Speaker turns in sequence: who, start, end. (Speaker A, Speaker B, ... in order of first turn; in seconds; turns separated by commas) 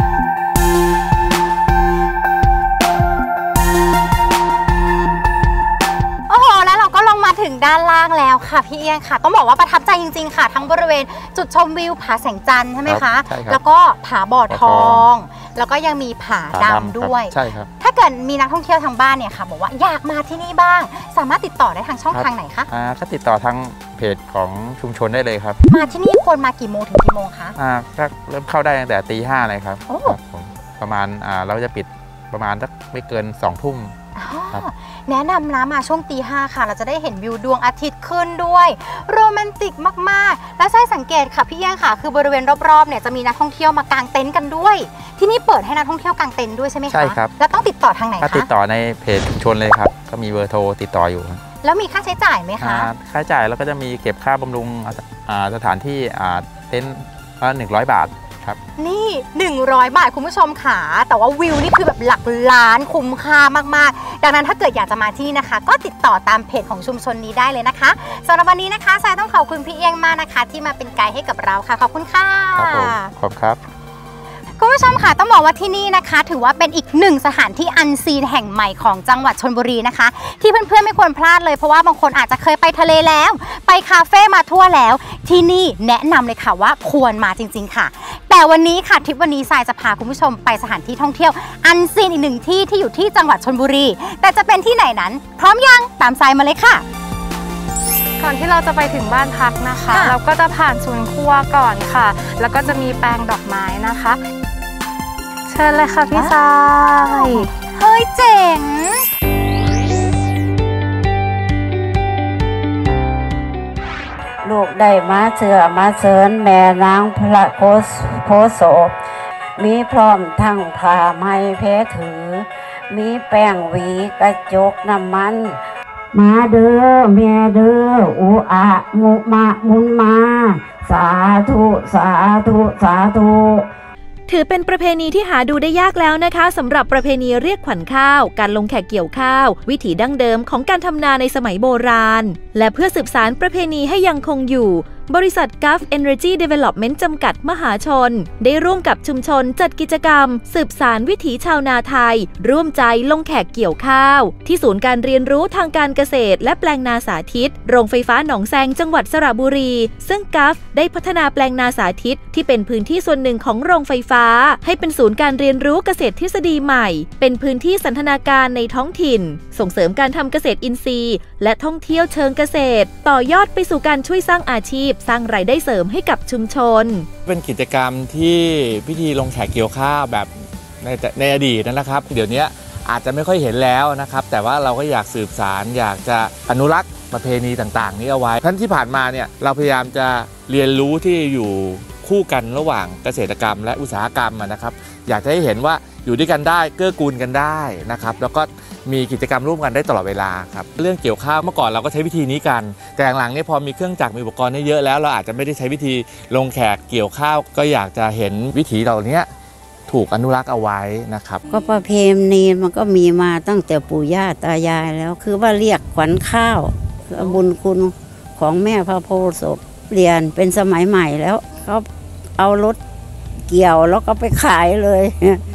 Speaker A: 6.3-22.7, Speaker B: 12.9-13.6, Speaker B: 14.5-15.1, Speaker B: 16.5-17.7, Speaker B: 22.1-25.6, Speaker A: 25.7-27.6, Speaker B: 27.6-34.0, Speaker A: 29.9-30.2, Speaker A: 34.2-48.5, Speaker B: 46.9-47.3, Speaker B: 48.2-51.4, Speaker A: 51.6-52.9, Speaker B: 52.6-58.6, Speaker A: 58.8-73.1, Speaker B: 72.6-73.6, Speaker A: 74.6-96.8, Speaker C: 98.2-104.2, Speaker C: 105.5-107.5, Speaker A: 107.0-109.1, Speaker D: 114.4-119.0, Speaker D: 119.6-125.6, Speaker D: 126.1-133.7, Speaker E: 134.3-177.1, Speaker F: 177.3-209.3, Speaker F: 209.9-211.4, Speaker D: 211.5-222.8, Speaker D: 223.5-225.4